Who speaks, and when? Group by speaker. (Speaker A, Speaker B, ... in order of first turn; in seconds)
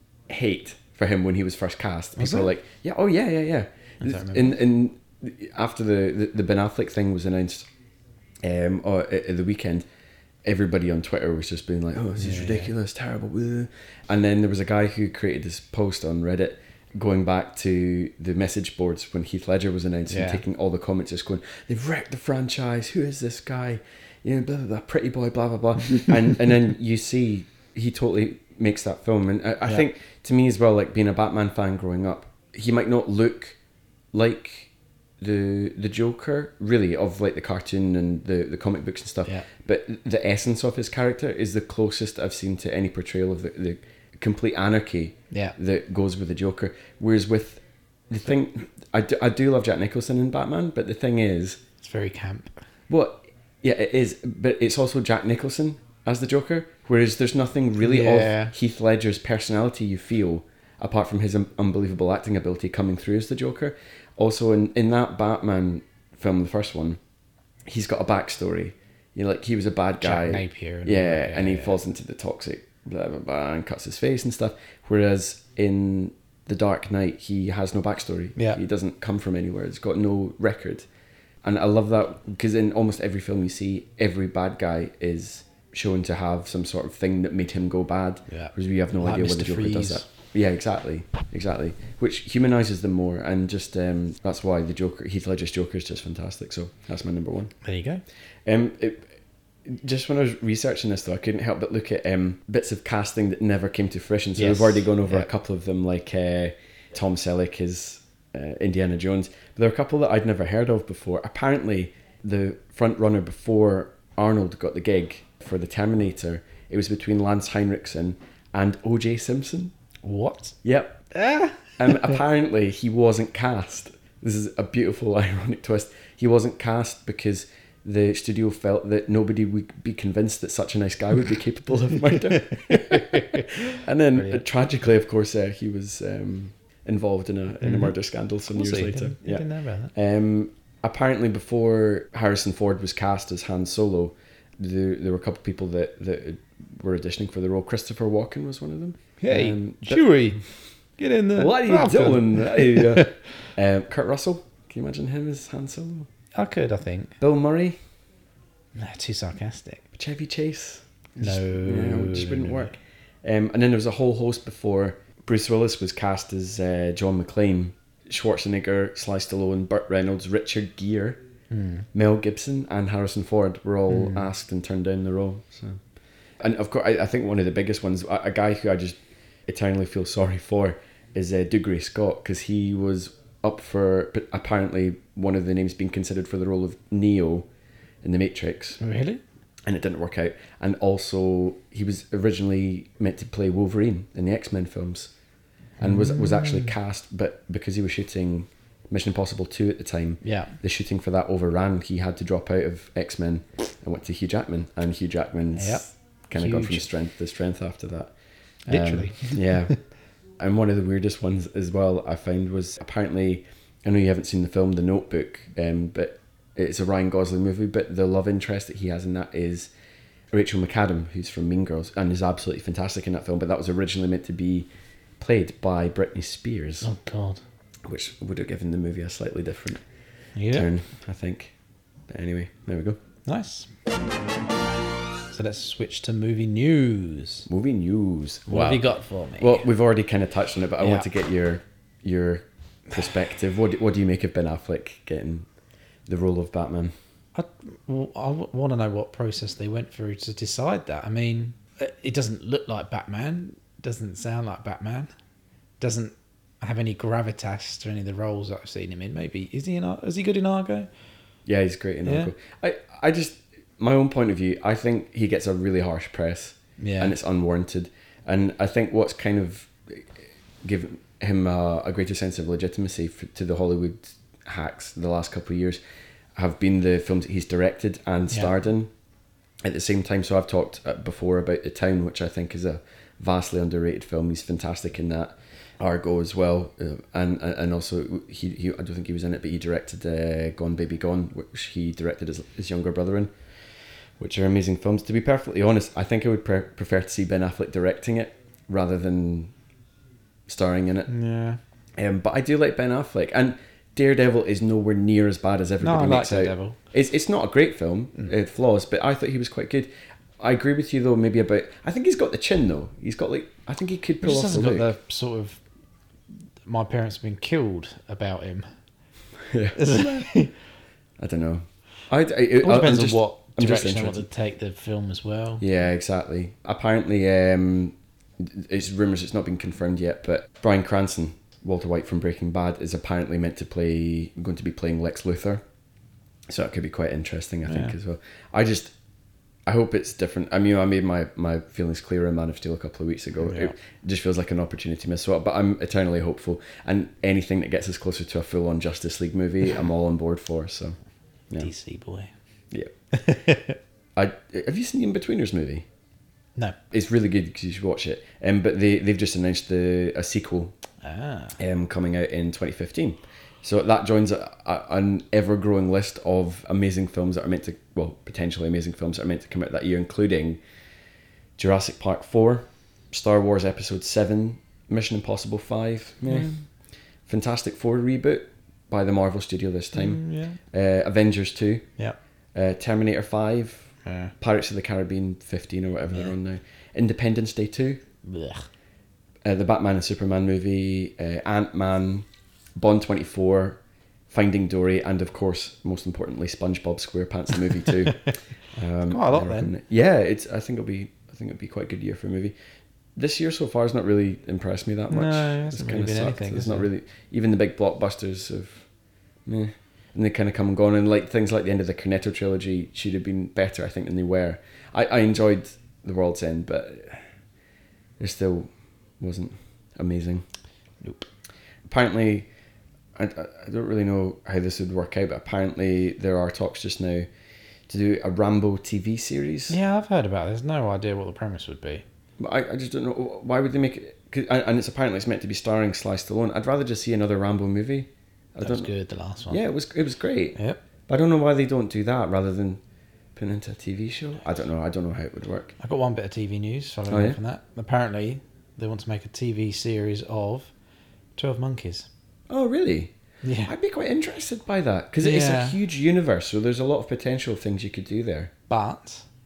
Speaker A: 0.3-7.7, 8.4-9.8, 10.4-33.6, 34.1-51.6, 52.9-67.0, 67.7-80.8, 81.4-97.5, 98.5-99.1, 99.6-119.7, 120.6-121.1, 121.8-150.0, 151.3-156.1, 157.2-157.8, 159.9-171.2, 171.9-175.8, 176.4-187.5, 188.0-188.8, 189.7-195.1, 195.8-208.1, 208.7-209.8, 210.4-219.7, 220.3-224.7, 225.2-226.9, 227.8-229.8, 230.5-231.5, 232.1-233.0, 237.5-238.9, 239.4-245.5, 246.1-246.9, 261.4-275.8, 276.4-278.9, 279.6-293.3, 294.2-299.5, 300.5-301.1, 302.0-314.9, 319.4-320.3, 321.2-324.2, 325.6-335.6, 336.5-338.9, 339.7-351.0, 354.1-355.9, 356.9-360.7, 361.6-370.6, 371.6-376.6, 377.3-381.9, 382.5-388.0, 389.4-402.5, 403.1-408.9, 409.4-417.2, 418.2-420.4, 421.9-422.5, 423.1-427.3, 427.9-429.8, 432.4-438.9, 439.5-440.6, 441.1-442.8, 443.4-445.7, 447.1-447.4, 452.5-453.1, 453.6-458.5
Speaker B: 2.2-2.5, 4.0-4.5, 12.2-12.7, 20.1-20.4, 45.3-45.5, 51.8-52.6, 57.8-58.5, 70.0-71.8, 78.3-78.6, 88.3-90.0, 97.6-98.0, 104.4-105.2, 120.0-120.5, 121.1-122.1, 132.6-133.6, 134.1-134.4, 137.6-137.9, 138.5-139.9, 149.2-150.4, 151.0-153.4, 156.3-157.2, 158.8-159.8, 161.2-162.7, 171.5-171.8, 173.9-174.3, 188.8-189.2, 195.8-196.7, 200.2-200.5, 205.6-206.9, 208.7-209.7, 226.8-227.4, 230.3-230.7, 233.2-233.7, 235.3-237.5, 238.5-239.6, 240.8-241.1, 247.3-255.1, 255.8-260.9, 262.0-262.3, 266.8-267.1, 301.1-301.6, 305.8-306.8, 314.2-315.6, 316.6-318.7, 319.7-320.5, 322.6-325.6, 337.6-337.9, 343.4-343.7, 351.6-352.3, 353.1-353.8, 361.0-361.6, 379.9-380.6, 384.0-384.3, 388.2-388.7, 399.1-399.7, 405.1-406.9, 421.0-421.3, 429.7-432.0, 438.6-439.6, 445.8-450.7, 451.4-452.1, 453.4-453.7, 455.2-455.8, 458.7-459.2